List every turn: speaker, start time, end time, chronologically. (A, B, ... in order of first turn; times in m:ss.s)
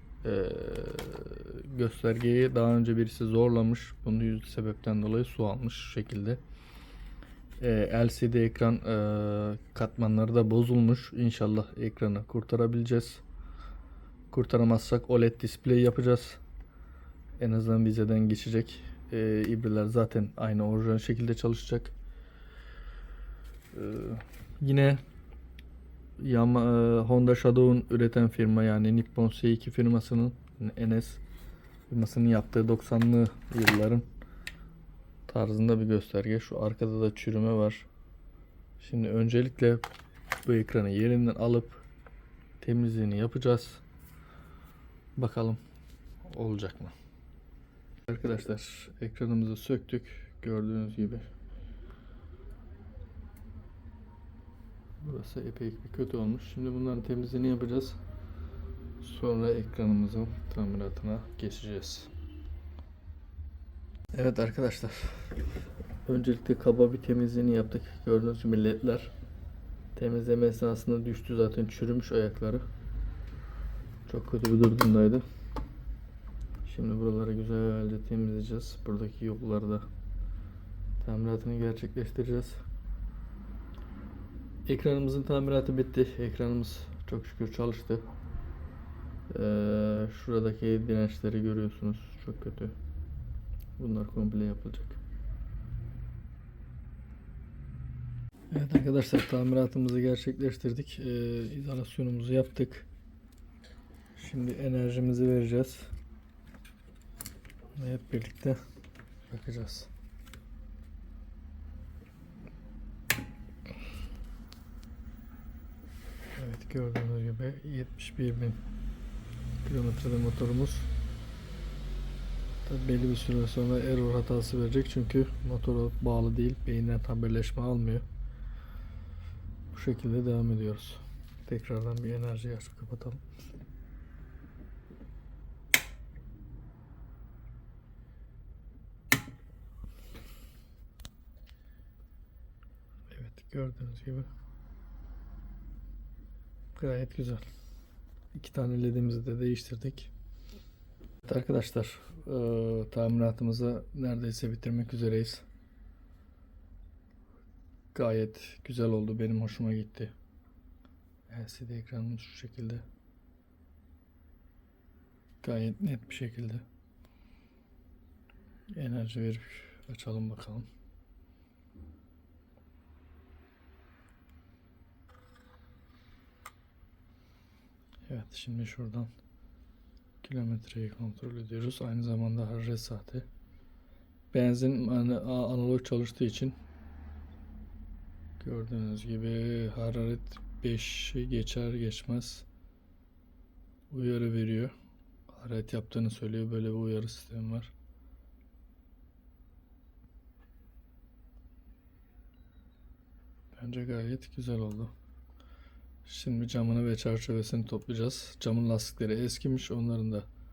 0:00.2-0:06.4 A
0:07.6-0:13.2 A
0:14.3-0:16.4 A
0:17.4-0:21.9 A
0:23.7-0:25.0 A
0:26.2-0:31.2 A
0:31.9-0:34.1 A
0:35.3-0:37.9 A
0:38.8-0:39.9 A
0:40.4-0:41.8 A
0:42.6-0:43.8 A
0:45.2-0:45.6 A
0:46.3-0:46.9 A
0:48.1-0:51.3 A
0:55.0-0:58.0 A
0:59.0-1:02.1 A
1:04.1-1:05.3 A
1:06.0-1:09.1 A
1:10.0-1:12.7 A
1:14.1-1:15.2 A
1:16.6-1:19.9 A
1:21.0-1:22.6 A
1:24.7-1:28.0 A
1:29.3-1:32.8 A
1:33.8-1:35.0 A
1:38.5-1:42.9 A
1:44.2-1:45.9 A
1:47.8-1:48.6 A
1:49.3-1:49.9 A
1:56.4-1:58.6 A
1:59.6-2:00.9 A
2:02.7-2:08.1 A
2:09.7-2:13.2 A
2:23.1-2:24.3 A
2:26.8-2:27.4 A
2:28.3-2:30.1 A
2:31.2-2:35.4 A
2:37.9-2:40.1 A
2:41.3-2:42.8 A
2:45.4-2:46.6 A
2:48.7-2:50.7 A
2:58.1-2:59.1 A
3:00.2-3:03.3 A
3:04.3-3:06.6 A
3:08.4-3:12.5 A
3:13.9-3:14.7 A
3:15.3-3:17.7 A
3:23.6-3:24.9 A
3:26.0-3:30.3 A